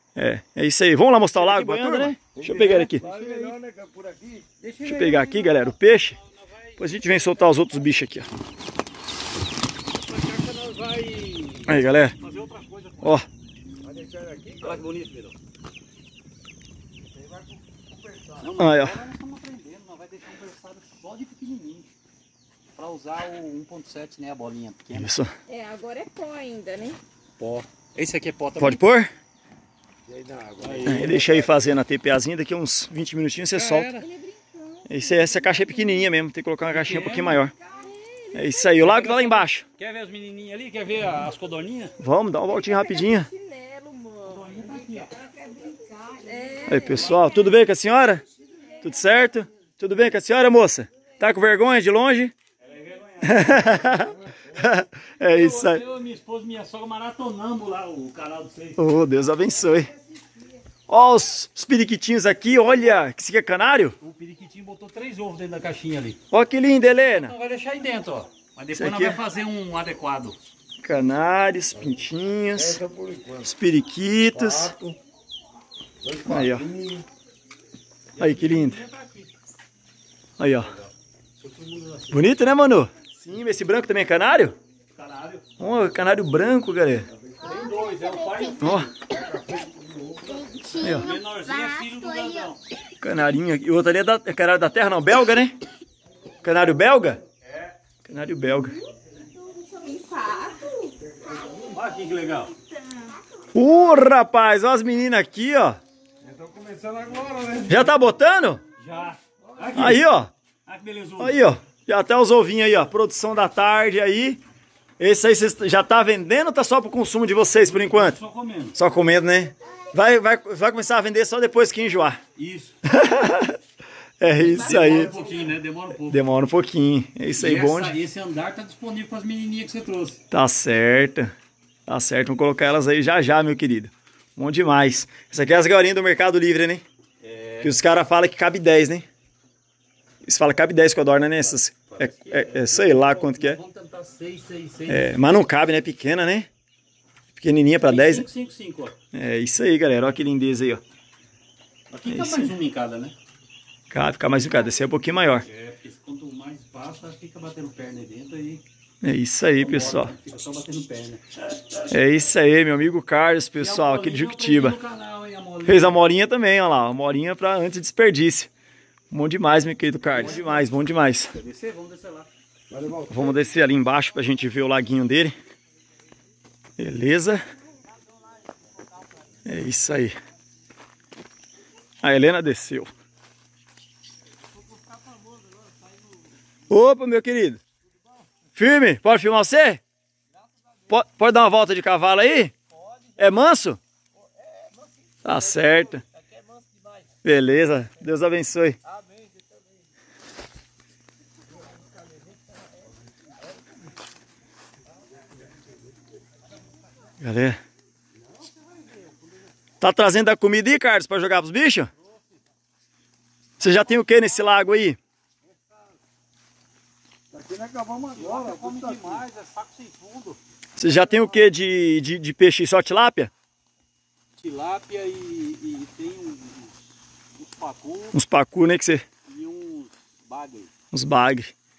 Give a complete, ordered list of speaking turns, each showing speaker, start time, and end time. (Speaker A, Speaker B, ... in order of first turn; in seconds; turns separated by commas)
Speaker A: 0.2-3.0, Speaker B: 1.4-3.6, Speaker C: 2.3-4.5, Speaker B: 4.6-7.5, Speaker A: 4.8-6.2, Speaker A: 6.8-8.3, Speaker B: 10.1-13.2, Speaker A: 11.7-12.2, Speaker C: 13.8-14.8, Speaker B: 14.6-15.3, Speaker C: 17.2-18.5, Speaker B: 18.4-21.9, Speaker A: 18.6-19.0, Speaker B: 22.8-25.1, Speaker A: 24.9-25.3, Speaker D: 25.5-27.0, Speaker B: 27.4-28.8, Speaker A: 28.6-29.1, Speaker C: 30.1-31.6, Speaker B: 30.6-31.2, Speaker A: 30.9-33.9, Speaker B: 33.5-34.1, Speaker D: 34.0-36.1, Speaker A: 34.9-37.5, Speaker B: 36.7-37.5, Speaker D: 37.7-38.7, Speaker A: 38.3-39.6, Speaker B: 38.8-42.0, Speaker A: 42.0-43.3, Speaker D: 42.5-47.5, Speaker B: 44.3-45.1, Speaker A: 46.7-48.2, Speaker A: 48.8-52.3, Speaker B: 52.6-54.3, Speaker A: 53.2-55.8, Speaker B: 55.2-58.8, Speaker A: 58.8-59.9, Speaker A: 60.9-64.0, Speaker B: 64.0-66.2, Speaker A: 66.3-67.3, Speaker B: 67.2-70.4, Speaker A: 68.7-69.2, Speaker A: 70.8-72.8, Speaker C: 71.8-72.0, Speaker C: 72.5-73.5, Speaker A: 73.4-74.9, Speaker C: 74.3-75.0, Speaker C: 76.0-77.1, Speaker A: 76.3-76.7, Speaker B: 78.2-79.3, Speaker A: 78.2-78.8, Speaker A: 80.4-80.7, Speaker B: 80.7-82.2, Speaker A: 82.1-84.6, Speaker B: 85.0-85.5, Speaker A: 85.6-87.1, Speaker C: 87.1-87.6, Speaker B: 87.4-88.9, Speaker D: 87.7-88.5, Speaker A: 88.6-88.9, Speaker C: 89.1-90.4, Speaker D: 90.3-92.5, Speaker A: 90.8-91.1, Speaker B: 90.8-92.6, Speaker A: 93.0-95.6, Speaker A: 96.4-97.2, Speaker B: 97.5-97.7, Speaker A: 98.0-98.8, Speaker D: 98.5-101.0, Speaker C: 101.2-101.8, Speaker B: 101.7-102.5, Speaker D: 102.8-103.2, Speaker A: 103.5-105.8, Speaker C: 106.2-108.0, Speaker A: 107.7-108.6, Speaker B: 108.8-110.0, Speaker C: 109.5-110.0, Speaker A: 109.8-110.3, Speaker B: 110.7-111.5, Speaker A: 111.2-114.4, Speaker A: 115.0-118.2, Speaker B: 117.6-118.8, Speaker A: 118.7-122.2, Speaker B: 122.4-122.8, Speaker A: 122.9-123.6, Speaker A: 124.2-125.1, Speaker B: 124.4-126.2, Speaker D: 124.7-125.3, Speaker A: 126.1-127.9, Speaker B: 127.3-130.2, Speaker A: 130.3-131.3, Speaker A: 131.9-136.8, Speaker B: 137.2-137.7, Speaker A: 137.6-139.1, Speaker A: 140.2-143.6, Speaker B: 141.7-145.2, Speaker A: 144.9-146.5, Speaker A: 147.4-148.3, Speaker B: 147.8-149.0, Speaker A: 149.1-150.8, Speaker B: 151.9-153.2, Speaker A: 152.1-152.5, Speaker A: 153.9-155.5, Speaker B: 155.4-158.6, Speaker A: 159.0-160.1, Speaker B: 159.6-161.4, Speaker A: 161.9-164.8, Speaker B: 163.6-166.0, Speaker A: 165.7-168.5, Speaker A: 169.1-171.3, Speaker B: 170.1-172.3, Speaker C: 172.7-173.4, Speaker A: 173.1-175.3, Speaker A: 176.8-177.4, Speaker A: 179.4-180.2, Speaker A: 182.0-182.9, Speaker B: 184.7-186.0, Speaker A: 186.7-187.6, Speaker A: 188.6-189.8, Speaker A: 190.9-192.5, Speaker A: 193.2-193.8, Speaker C: 194.2-197.1, Speaker A: 195.2-196.0, Speaker A: 197.2-198.8, Speaker C: 198.9-199.8, Speaker C: 201.8-202.6, Speaker A: 207.2-207.6, Speaker A: 209.8-211.9, Speaker A: 213.6-215.0, Speaker C: 217.3-219.2, Speaker B: 218.2-221.3, Speaker A: 220.8-223.3, Speaker B: 224.4-226.8, Speaker B: 227.3-228.1, Speaker A: 228.1-229.1, Speaker B: 229.3-230.7, Speaker A: 230.9-231.5